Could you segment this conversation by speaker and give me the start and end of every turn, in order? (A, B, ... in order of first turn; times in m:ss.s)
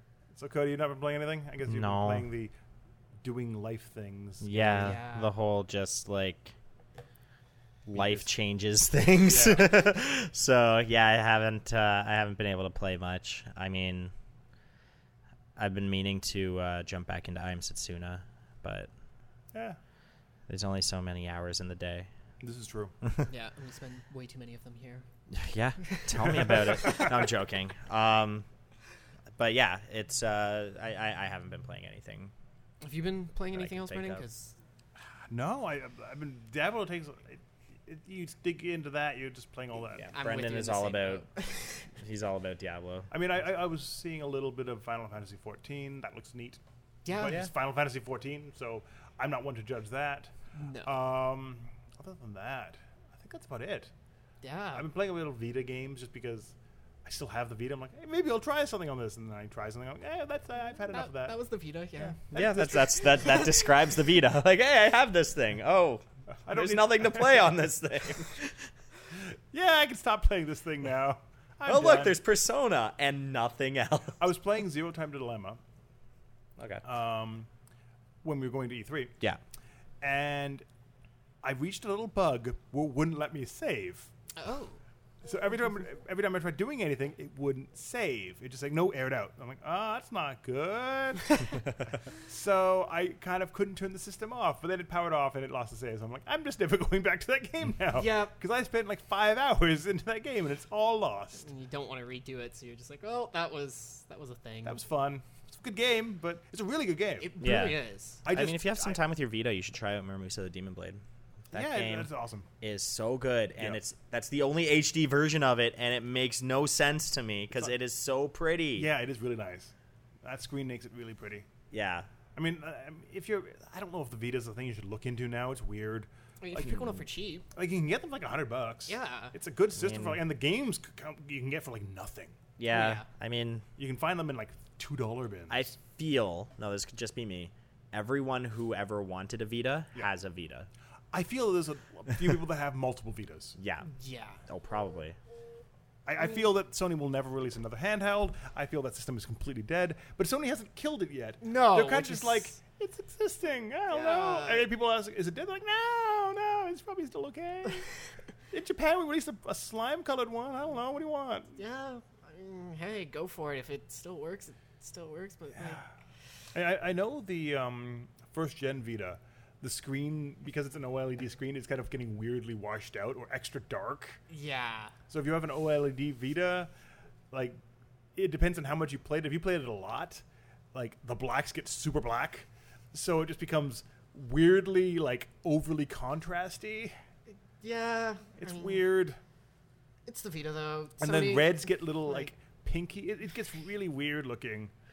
0:00.3-0:02.5 A
0:01.7-0:02.3 B
0:03.2-0:05.0 A
0:04.4-0:06.6 B
0:04.6-0:05.3 C
0:07.9-0:14.1 B
0:07.9-0:08.3 A
0:09.2-0:09.8 A
0:15.6-0:18.9 B
0:19.5-0:19.8 A
0:20.5-0:22.1 B
0:22.4-0:22.9 A
0:23.3-0:25.1 C
0:25.3-0:28.5 B
0:25.8-0:27.0 C
0:26.4-0:27.1 A
0:29.4-0:32.3 B
0:32.8-0:34.6 C
0:33.5-0:34.2 B
0:35.3-0:40.1 A
0:40.0-0:41.2 B
0:40.1-0:41.9 C
0:42.0-0:43.1 B
0:43.1-0:50.3 A
0:47.0-0:47.4 C
0:47.2-0:47.5 B
0:50.6-0:50.9 C
0:50.8-0:53.9 A
0:54.4-0:54.8 C
0:54.8-1:01.4 A
1:00.9-1:03.5 C
1:02.0-1:03.0 A
1:02.3-1:08.7 B
1:06.5-1:07.5 A
1:09.5-1:12.2 A
1:11.6-1:14.2 B
1:14.2-1:15.6 A
1:16.6-1:16.8 B
1:16.8-1:17.5 A
1:18.2-1:19.1 A
1:20.0-1:20.6 A
1:21.4-1:24.1 A
1:24.4-1:24.8 C
1:25.2-1:31.5 A
1:32.1-1:41.5 A
1:37.9-1:38.3 C
1:41.4-1:44.8 C
1:44.6-1:47.7 A
1:47.2-1:48.2 C
1:47.4-1:52.1 B
1:48.2-1:49.0 A
1:51.5-1:52.5 A
1:52.6-1:58.9 B
1:58.8-2:01.5 A
2:01.7-2:02.1 B
2:02.4-2:07.0 A
2:06.4-2:07.5 C
2:07.6-2:12.4 A
2:08.9-2:09.3 C
2:09.8-2:10.2 B
2:12.6-2:13.7 B
2:12.7-2:13.1 C
2:13.8-2:15.7 A
2:15.5-2:20.7 B
2:21.1-2:23.6 A
2:23.6-2:23.9 B
2:23.9-2:24.4 C
2:24.5-2:25.2 B
2:26.1-2:37.9 A
2:31.4-2:32.6 C
2:33.9-2:34.7 C
2:38.5-2:41.6 A
2:41.6-2:45.8 C
2:46.5-2:54.2 A
2:54.3-2:54.9 C
2:55.1-2:56.7 A
2:57.3-2:57.6 A
2:58.2-3:00.2 A
3:00.7-3:07.0 A
3:07.6-3:08.9 C
3:08.4-3:09.2 A
3:10.1-3:12.3 C
3:11.0-3:14.7 A